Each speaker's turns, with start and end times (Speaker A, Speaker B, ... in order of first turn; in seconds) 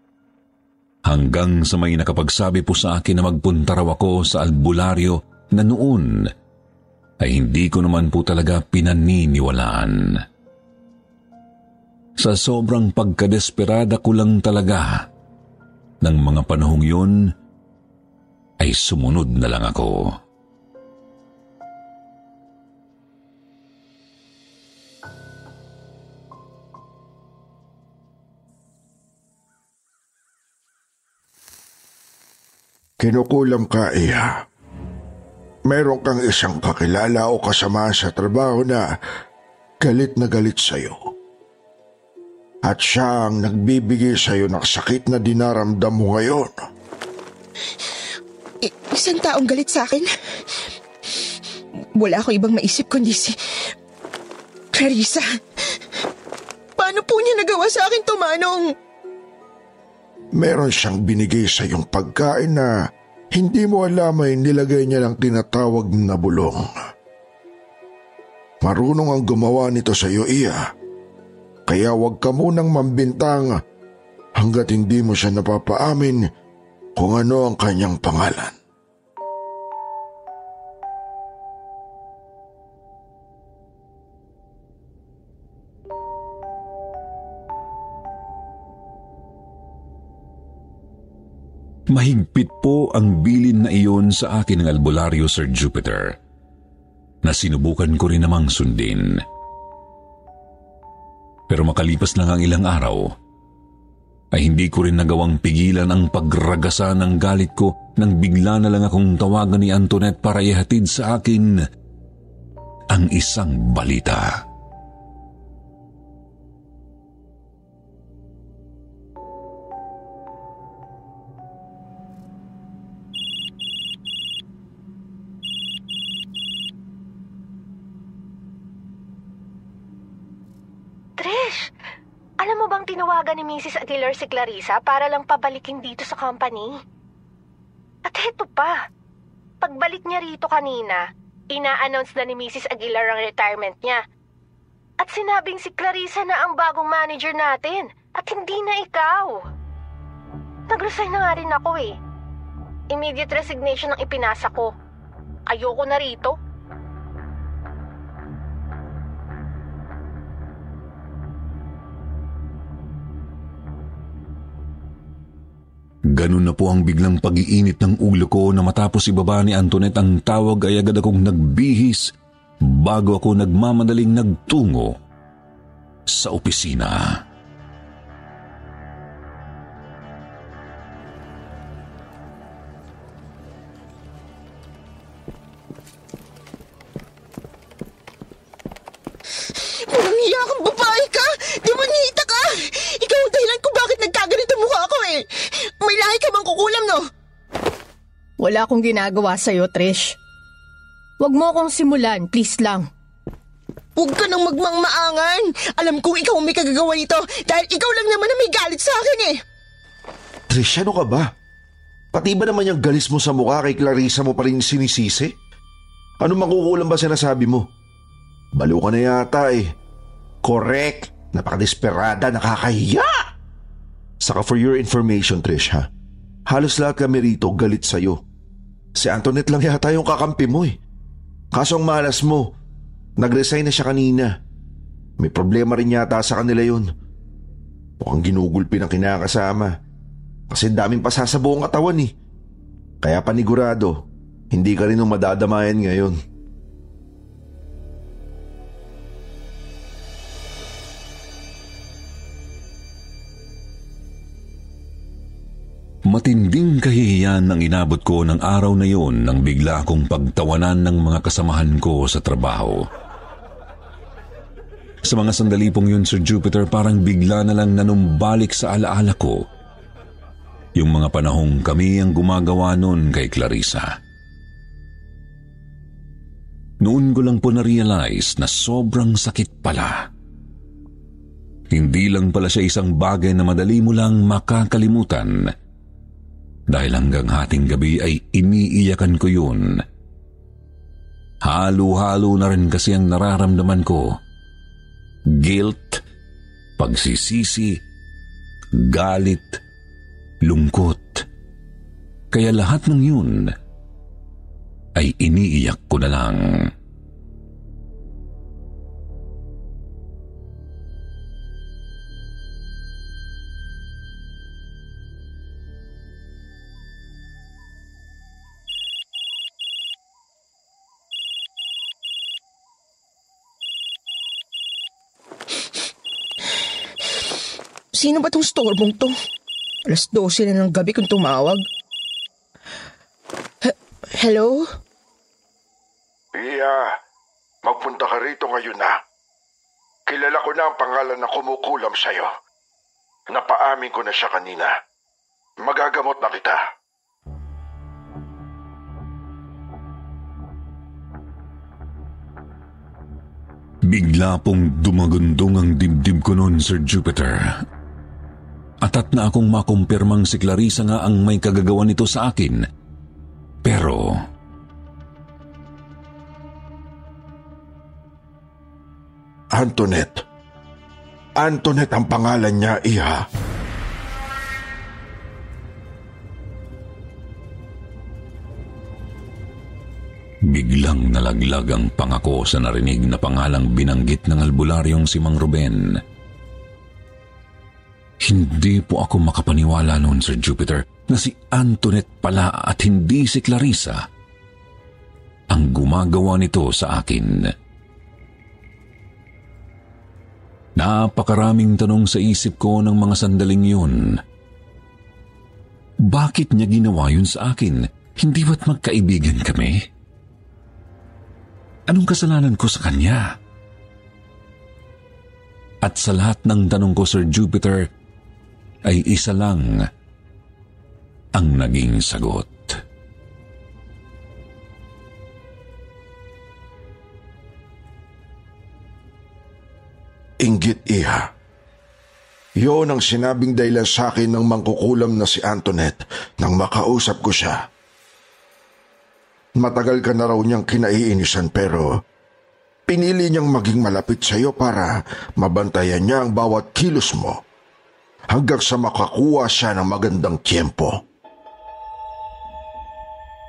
Speaker A: 1.1-6.2, 7.2-9.9, 12.2-15.0, 16.0-17.2, 18.6-20.1, 91.9-96.2, 97.2-99.1, 101.5-103.1, 104.3-111.6, 112.9-114.4, 166.1-174.9, 176.1-177.2, 256.1-262.8, 265.1-269.4, 270.8-273.9, 276.8-280.1, 281.7-285.3, 286.7-289.8, 291.4-294.2, 295.3-296.0, 296.8-297.8, 298.7-299.6, 300.4-301.2, 302.3-303.5, 304.9-306.7, 353.9-357.6, 358.8-362.6, 363.6-364.1, 380.5-386.0, 388.2-394.0, 395.5-397.4, 400.8-404.2, 406.0-409.8, 411.9-413.3, 415.8-417.9, 418.9-419.8, 421.4-422.8
Speaker B: 33.0-34.4, 35.7-38.8, 39.8-41.1, 42.6-46.6, 60.4-62.7, 63.3-66.7, 68.6-70.7, 71.7-73.5, 74.4-76.2, 77.0-78.5, 336.3-337.0, 337.6-339.0, 340.1-342.3, 343.3-344.7, 345.6-346.6, 369.5-370.2, 371.4-373.2, 430.4-431.3, 432.6-437.6, 439.6-441.9, 442.9-447.4, 448.3-451.0
Speaker C: 48.6-50.6, 52.0-53.3, 54.7-55.2, 56.8-58.7, 189.4-197.0, 203.9-209.4, 327.9-329.1, 329.9-331.6, 333.6-334.7
Speaker D: 131.2-131.7, 132.4-136.8, 138.1-138.8, 139.6-144.0, 145.0-149.4, 150.7-151.9, 152.9-154.7, 155.5-156.3, 198.4-200.2, 201.2-202.9
Speaker E: 210.5-211.3, 212.1-215.3, 216.2-217.7, 218.5-219.7, 220.4-223.1, 224.2-225.8, 226.5-228.2, 229.0-230.8, 231.5-232.4, 233.2-234.3, 235.2-236.9, 238.0-239.7, 240.5-242.1, 243.0-246.2